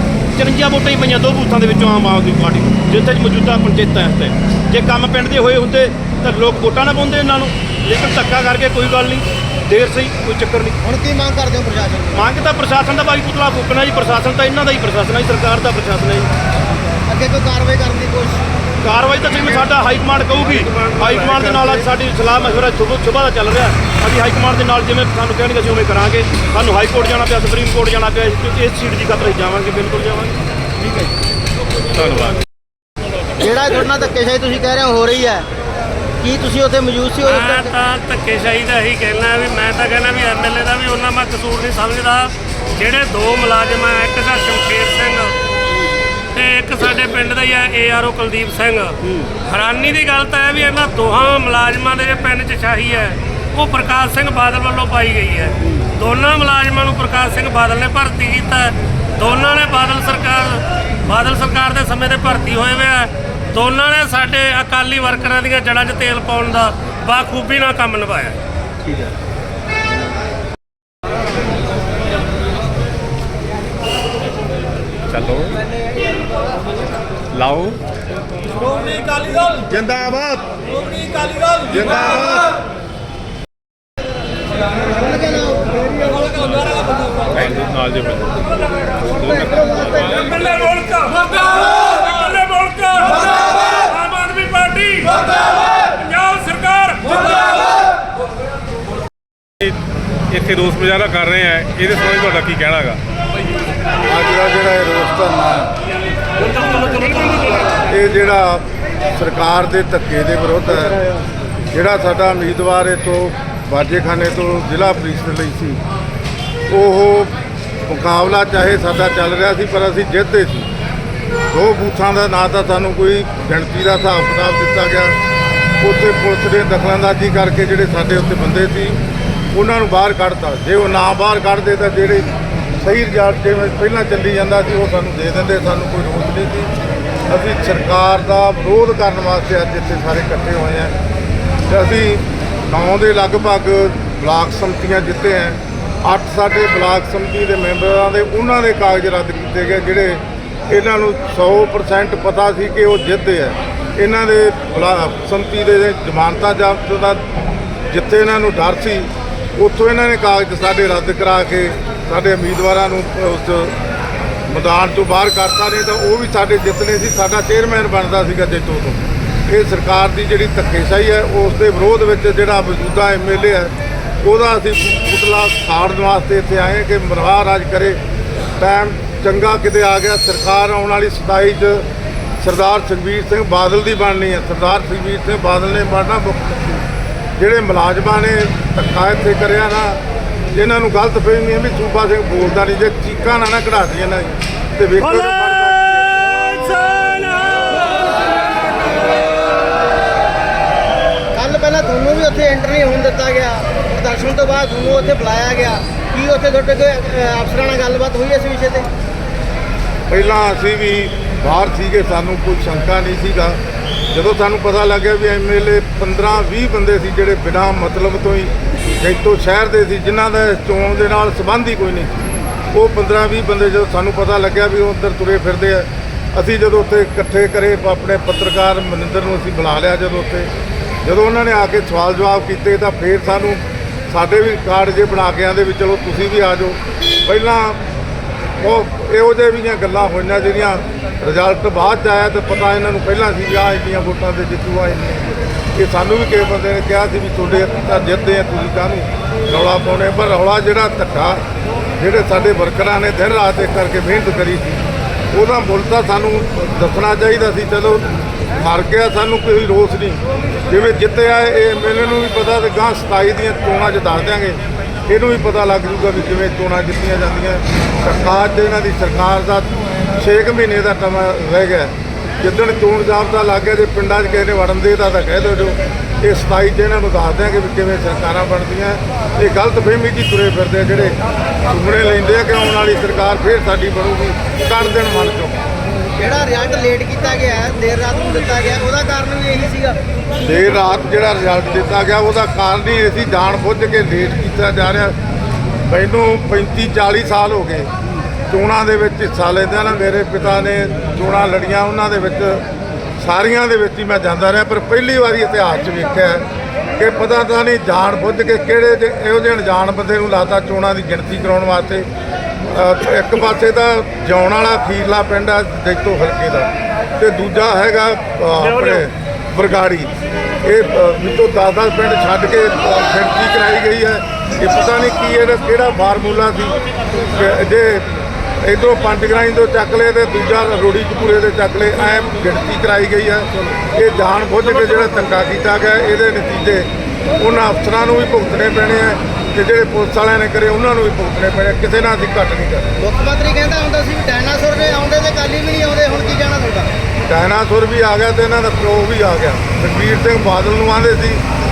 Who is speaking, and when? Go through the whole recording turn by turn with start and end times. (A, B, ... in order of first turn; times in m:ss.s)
0:00.3-0:10.8 A
0:10.8-0:12.3 B
0:12.1-0:16.3 A
0:17.1-0:18.4 B
0:18.8-0:30.4 A
0:20.4-0:21.9 C
0:32.0-0:32.4 D
0:33.4-0:35.4 B
0:36.2-0:37.8 B
0:37.2-0:45.3 E
0:46.4-1:08.4 E
1:15.1-1:15.6 D
1:17.3-1:17.8 D
1:19.8-1:20.4 B
1:24.9-1:26.3 B
1:27.3-1:28.5 D
1:29.1-1:30.2 D
1:30.1-1:35.1 C
1:36.0-1:37.2 C
1:40.3-1:43.0 D
1:44.0-1:45.7 F
1:46.4-1:47.7 C
1:47.9-1:51.0 F
1:51.7-1:55.8 F
1:56.7-1:57.3 F
1:57.9-2:00.7 F
2:01.5-2:05.2 F
2:05.8-2:09.0 F
2:09.5-2:16.7 F
2:17.3-2:20.9 F
2:21.7-2:37.2 F
2:37.9-2:43.8 F
2:44.5-2:58.0 F
2:58.6-3:01.9 F
3:02.4-3:06.8 F
3:07.4-3:10.0 F
3:10.5-3:16.1 F
3:15.0-3:17.9 C
3:21.4-3:28.9 B
3:30.1-3:33.6 F
3:34.1-3:50.5 F
3:51.0-3:57.8 F
3:58.6-4:11.4 F
4:12.0-4:14.8 F
4:15.3-4:45.6 F
4:46.2-4:50.0 B
4:50.4-4:55.2 F
4:55.8-4:57.9 F
4:58.5-5:02.6 F
5:03.2-5:06.4 F
5:07.0-5:12.1 F
5:12.7-5:20.1 F
5:18.5-5:19.1 C
5:20.6-5:28.1 F
5:28.6-5:42.9 F
5:43.0-5:46.9 B
5:47.2-5:51.4 F